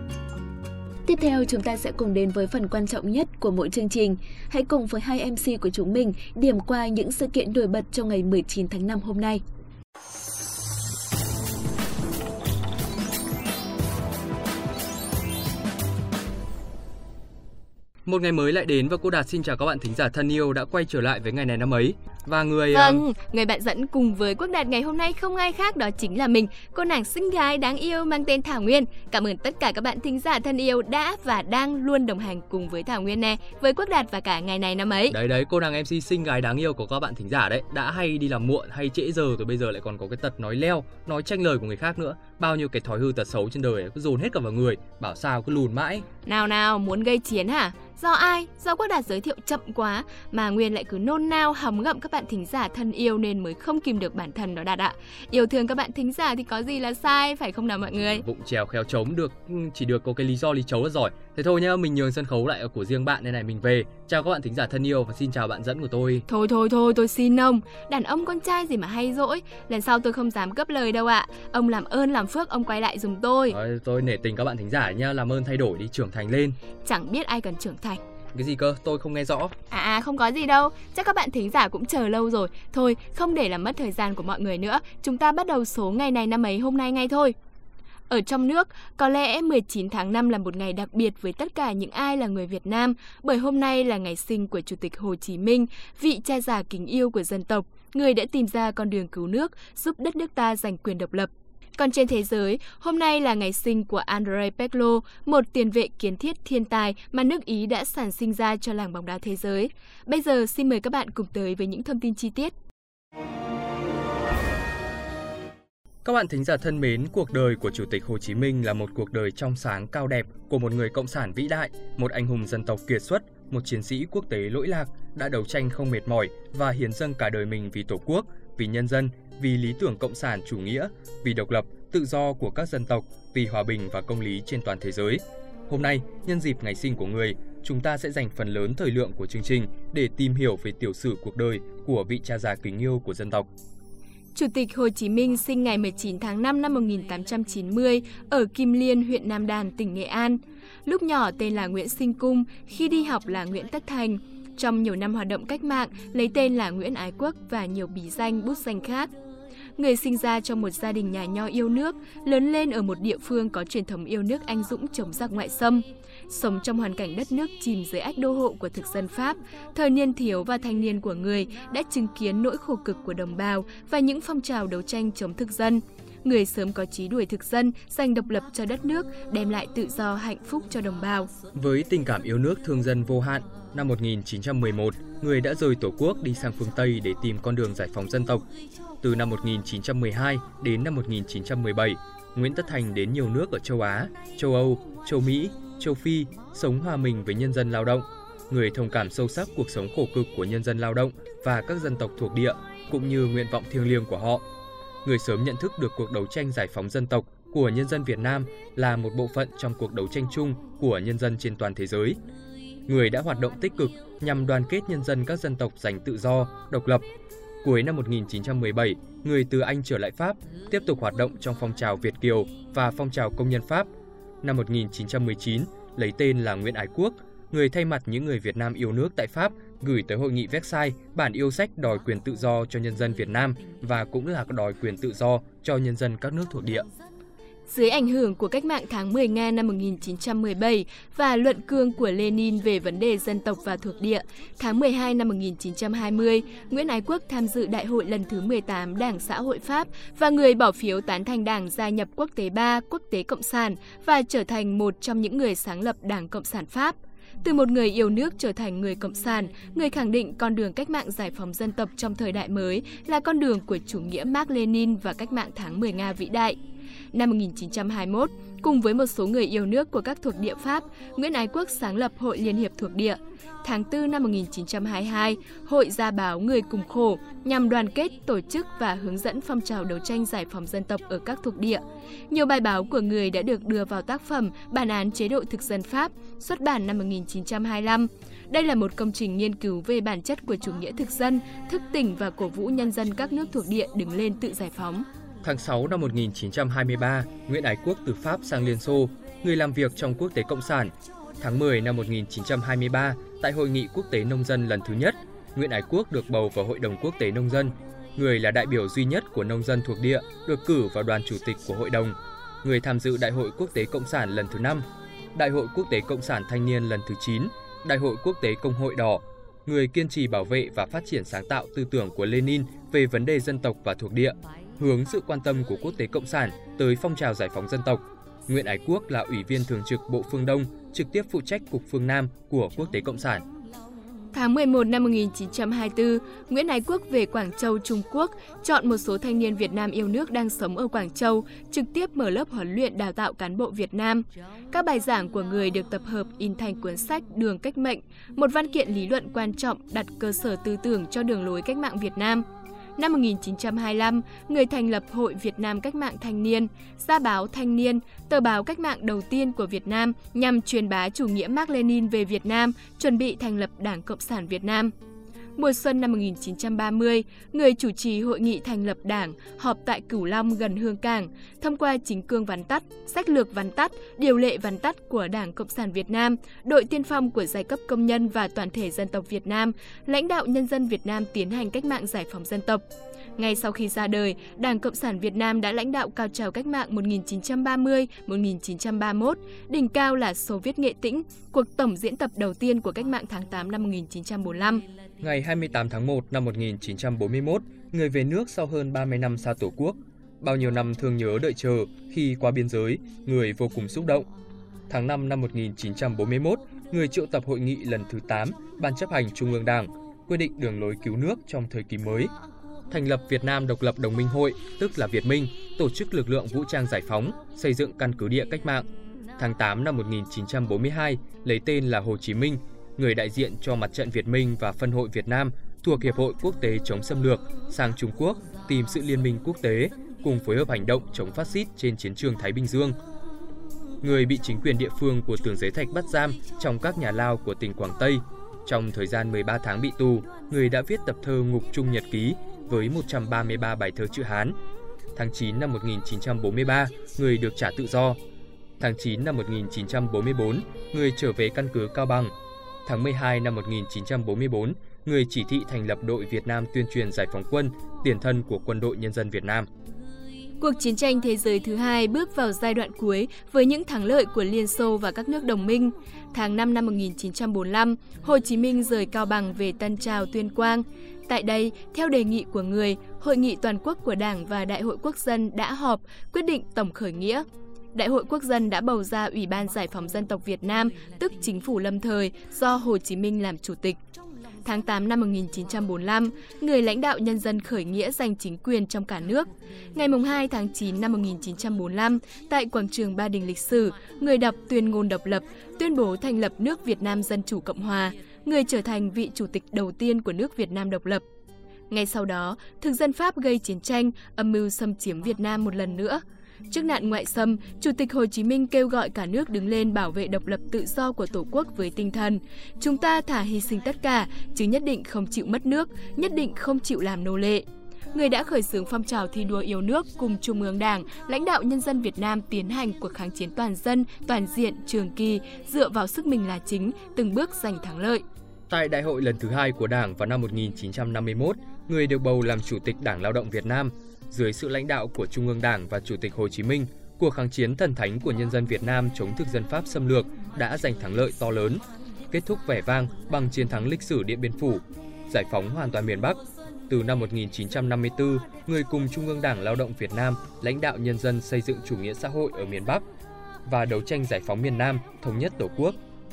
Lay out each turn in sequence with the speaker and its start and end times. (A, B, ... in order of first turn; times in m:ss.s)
0:01.0-0:09.4 A
0:18.0-0:23.0 B
0:22.7-0:35.2 C
0:35.1-0:46.0 B
0:46.2-0:58.2 C
0:58.0-1:06.2 B
1:06.3-1:13.6 C
1:13.5-1:16.6 B
1:16.8-1:18.0 C
1:18.3-1:19.5 B
1:19.7-1:27.4 C
1:28.1-1:52.5 C
1:56.0-2:23.5 B
2:24.3-2:39.1 C
2:39.8-3:01.3 C
3:01.5-3:08.4 B
3:09.0-3:24.4 B
3:25.0-3:32.2 B
3:32.9-3:37.0 B
3:37.6-3:43.9 B
3:44.4-3:56.9 B
3:57.7-4:26.6 C
4:27.1-4:55.0 C
4:55.4-5:33.4 B
5:34.3-5:52.4 C
5:53.0-6:04.9 C
6:05.6-6:22.8 C
6:23.4-6:34.8 C
6:35.2-6:44.3 B
6:44.9-6:52.3 B
6:52.9-6:58.8 B
6:59.4-7:13.0 B
7:14.0-7:24.6 B
7:25.2-7:28.2 B
7:28.8-7:32.3 B
7:32.8-7:39.7 B
7:40.6-8:04.0 C
8:04.6-8:21.2 C
8:21.9-8:48.2 C
8:48.7-9:13.0 B
9:13.6-9:16.0 B